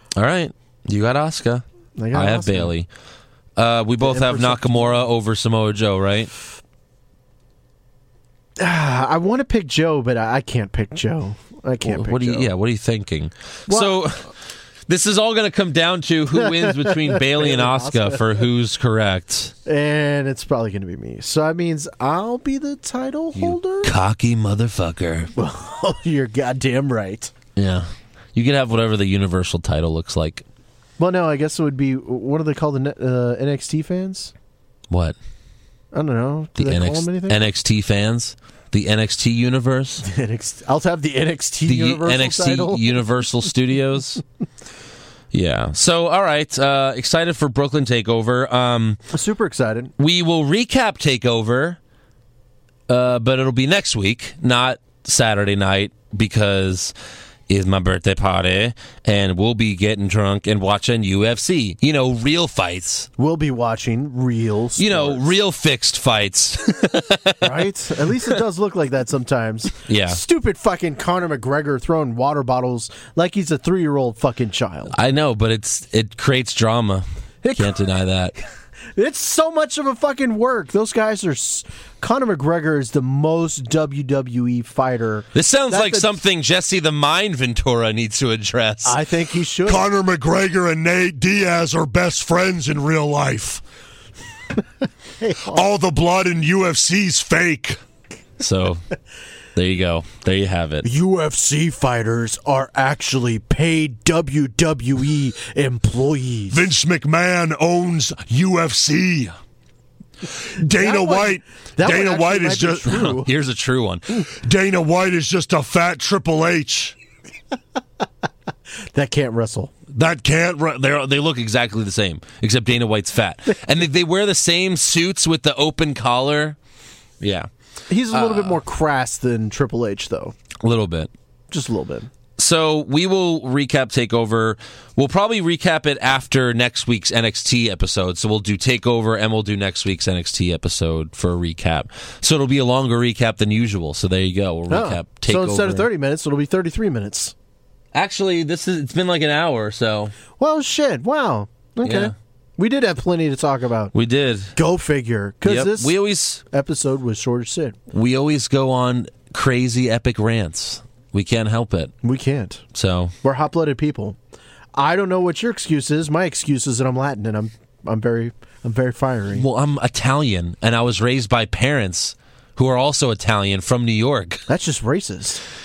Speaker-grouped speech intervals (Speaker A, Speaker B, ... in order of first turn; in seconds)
Speaker A: 0.1-2.9, 3.6-6.3, 11.8-14.3, 14.9-19.5, 23.4-25.3, 27.6-30.4, 34.9-35.2, 36.6-40.0, 41.7-44.2, 45.3-49.0, 50.0-51.8, 52.9-56.9, 57.5-63.1, 64.8-67.7, 69.8-70.2, 74.9-78.3, 85.3-89.0, 98.4-98.8, 99.5-100.9, 113.0-114.2, 120.7-126.6, 127.2-127.5, 128.1-128.6, 130.6-131.1, 132.4-145.9, 147.9-150.2, 151.8-152.1, 153.9-154.6, 155.4-156.4, 157.9-161.9, 162.7-163.1, 169.3-174.4
Speaker B: 2.0-2.7, 4.0-5.1, 8.6-12.5, 13.7-14.0, 16.3-18.4, 19.6-23.9, 25.4-27.3, 31.0-34.3, 35.9-37.5, 40.0-43.0, 49.1-49.9, 63.2-65.3, 67.4-75.0, 77.4-77.8, 78.9-86.2, 88.8-89.9, 95.2-95.7, 100.8-106.7, 110.7-113.3, 118.8-119.7, 127.9-130.3, 131.5-132.1, 144.7-147.3, 150.4-153.9, 154.6-157.8, 162.0-162.6, 163.2-164.2, 164.7-169.4, 174.5-175.4
Speaker C: 89.7-93.6, 95.5-97.8, 106.5-109.3, 110.3-113.1, 114.2-117.0, 120.0-120.7